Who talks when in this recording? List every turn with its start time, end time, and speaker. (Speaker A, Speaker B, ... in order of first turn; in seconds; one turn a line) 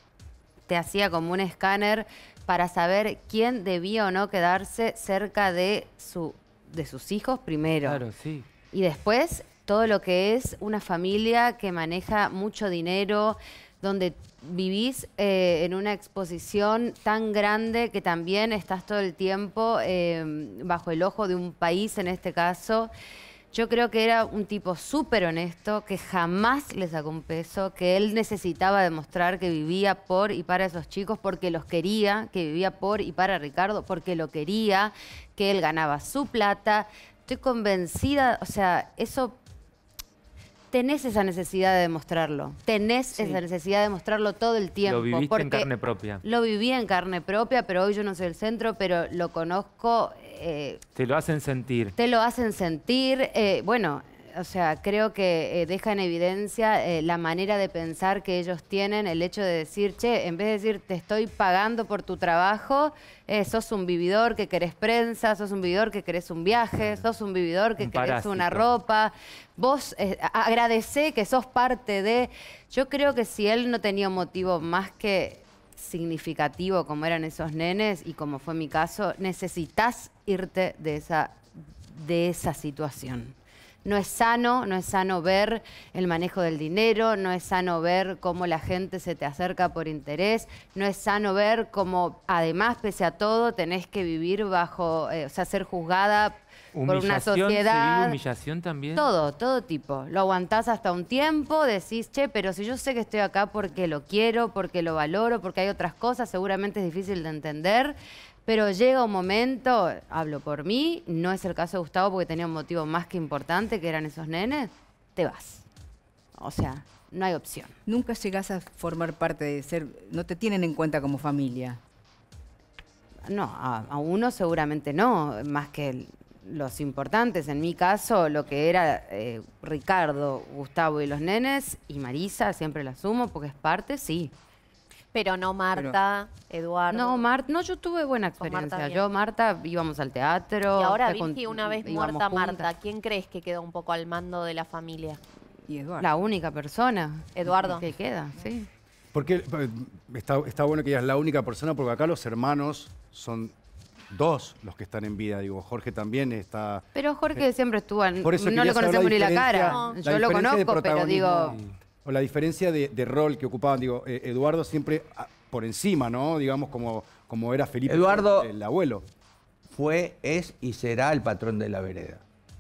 Speaker A: 0.7-8.0
Speaker B: 7.8-8.5
Speaker A: 8.7-22.9
Speaker A: 23.5-39.4
Speaker A: 40.7-45.7
Speaker C: 43.2-43.4
Speaker B: 44.9-46.2
Speaker A: 46.2-50.8
Speaker B: 51.0-51.9
Speaker A: 52.0-98.2
Speaker B: 67.8-68.7
Speaker B: 96.7-99.1
Speaker A: 98.9-115.7
Speaker A: 116.4-117.8
Speaker C: 117.9-121.8
Speaker A: 123.3-134.3
Speaker D: 135.1-137.2
Speaker A: 136.9-142.7
Speaker D: 138.4-139.0
Speaker D: 140.8-145.2
Speaker C: 145.7-146.1
Speaker A: 146.0-148.7
Speaker D: 147.3-147.8
Speaker E: 149.1-153.5
Speaker E: 154.1-157.4
Speaker A: 156.9-161.6
Speaker E: 158.2-169.1
Speaker D: 159.7-160.0
Speaker F: 167.9-168.5
Speaker F: 169.7-172.2